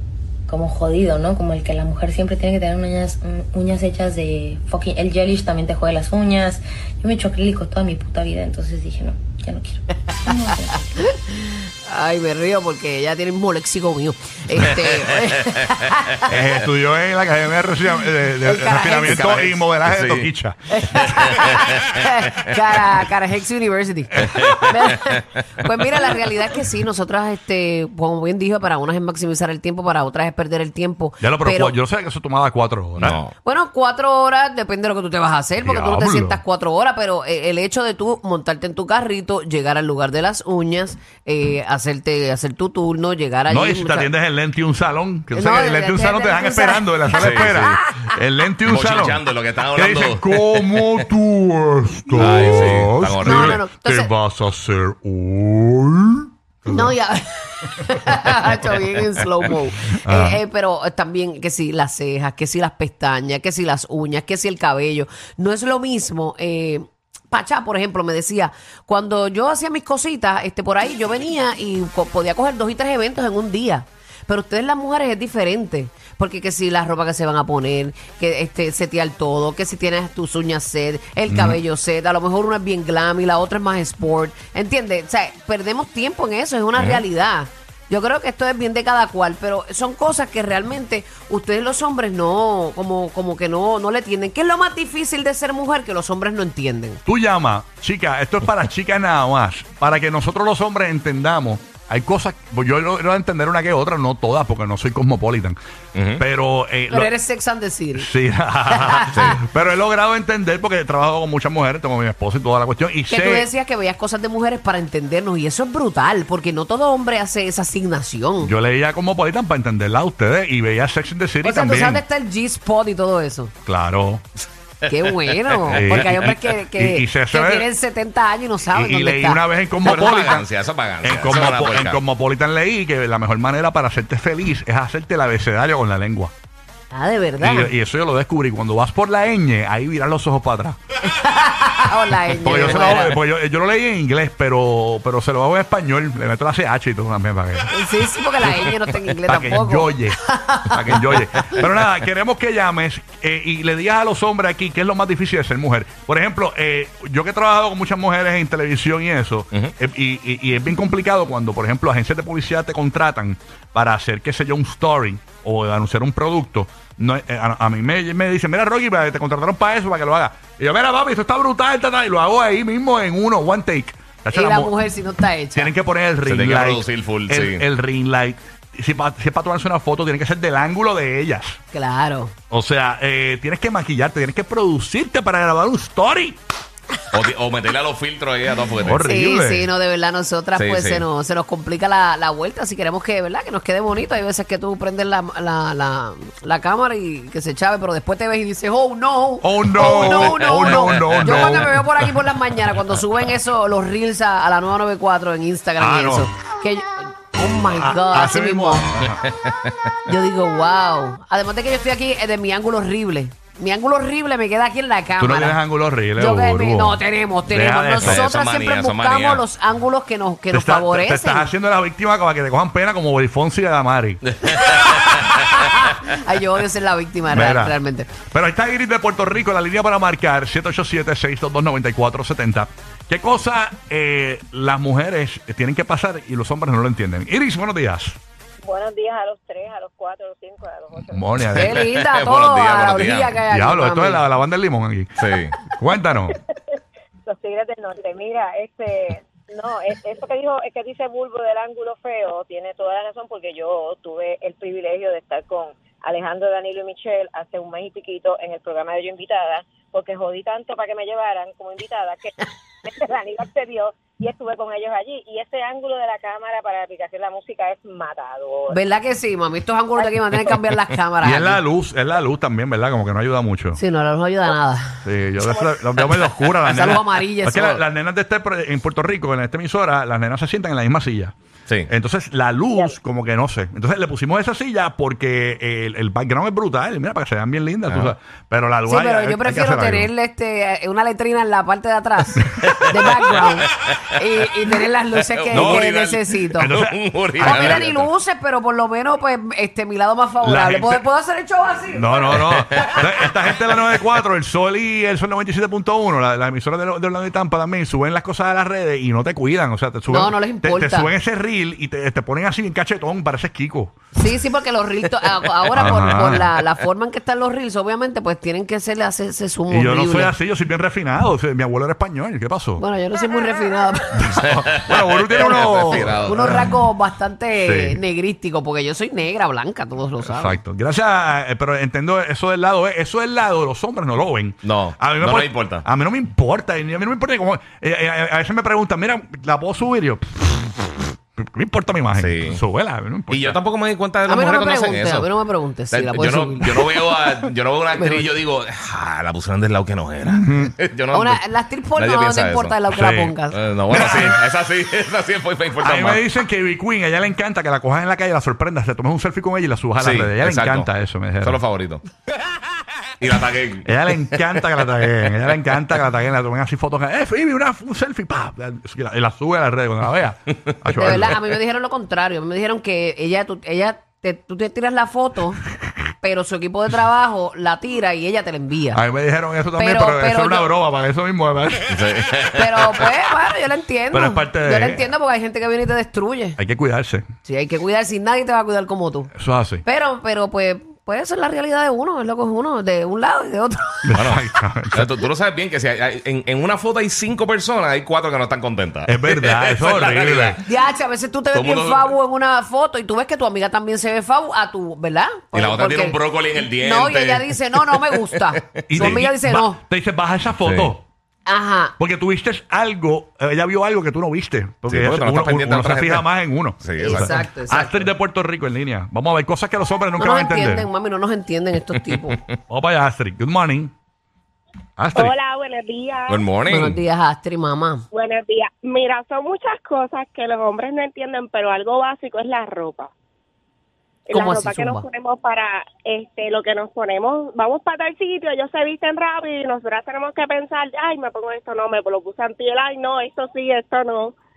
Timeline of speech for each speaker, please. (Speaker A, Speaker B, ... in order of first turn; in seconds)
Speaker A: 0.5-11.0
Speaker B: 11.0-16.3, 18.2-19.3, 20.7-31.8, 33.4-44.1, 45.3-48.1, 52.2-52.7, 53.2-54.1, 56.7-97.0, 106.9-108.1, 108.7-109.4, 113.1-118.5, 121.4-123.5, 124.9-130.4, 136.9-137.7, 141.1-143.2, 147.7-151.6, 174.3-175.7, 181.7-182.3, 189.0-208.8, 210.1-215.6, 216.1-221.5, 224.5-228.1, 241.6-244.2, 268.7-271.6, 273.8-275.0, 276.7-277.8, 288.9-296.7, 297.4-302.9, 310.1-311.1, 314.1-320.4, 322.8-324.4, 325.4-330.6, 344.2-347.3, 347.9-348.3, 351.1-353.6, 371.0-375.6, 376.2-379.0, 379.7-380.7, 382.5-386.6, 387.4-394.2, 400.6-409.8, 411.5-412.0, 417.0-418.1, 420.2-422.4, 426.7-428.0, 434.3-435.1
Speaker C: 16.2-21.3, 24.1-24.7, 31.2-33.2, 35.6-36.4, 43.5-56.9, 60.0-60.4, 81.3-81.6, 97.1-105.6, 106.2-107.1, 108.0-113.5, 118.4-122.0, 123.7-124.2, 125.7-127.7, 128.7-130.4, 131.0-136.3, 137.4-140.8, 142.4-147.7, 149.3-174.7, 175.5-181.6, 182.5-186.4, 188.8-189.7, 199.4-202.2, 205.8-206.3, 207.7-209.2, 215.2-218.2, 220.5-224.3, 227.3-227.8, 228.3-238.2, 241.1-241.8, 243.5-246.4, 271.2-273.8, 275.0-281.4, 281.9-290.1, 295.5-295.9, 296.6-297.9, 300.4-301.0, 301.9-313.9, 315.8-316.5, 319.7-322.8, 324.1-326.7, 327.6-328.0, 330.2-343.6, 350.3-350.7, 352.9-353.4, 353.9-354.4, 355.8-361.6, 363.9-371.4, 378.9-382.0, 384.1-385.1, 386.6-387.2, 389.4-389.8, 394.1-395.1, 399.1-400.6, 408.9-411.0, 412.0-420.9, 422.7-423.9, 425.0-425.4
Speaker D: 19.1-20.3, 24.4-25.0, 33.0-33.3, 47.2-47.8, 48.7-51.1, 52.2-53.6, 86.8-87.0, 106.0-106.2, 109.1-109.4, 129.8-132.0, 176.3-177.7, 187.1-189.0, 190.6-191.1, 199.8-201.5, 209.3-209.7, 218.0-219.4, 224.4-225.7, 241.6-243.4, 245.2-245.6, 287.9-288.1, 292.6-293.9, 295.3-298.1, 315.7-316.0, 324.5-326.6, 334.6-335.8, 342.1-342.6, 343.3-345.3, 345.9-352.8, 353.5-356.3, 360.0-360.9, 361.4-362.0, 363.2-364.6, 381.9-382.9, 394.1-400.7, 401.5-402.1, 405.5-409.2, 410.6-410.9, 414.9-416.3, 416.8-417.4, 426.3-427.0
Speaker E: 238.6-241.2, 247.3-268.8
Speaker F: 425.2-426.4, 428.1-433.1, 434.3-444.3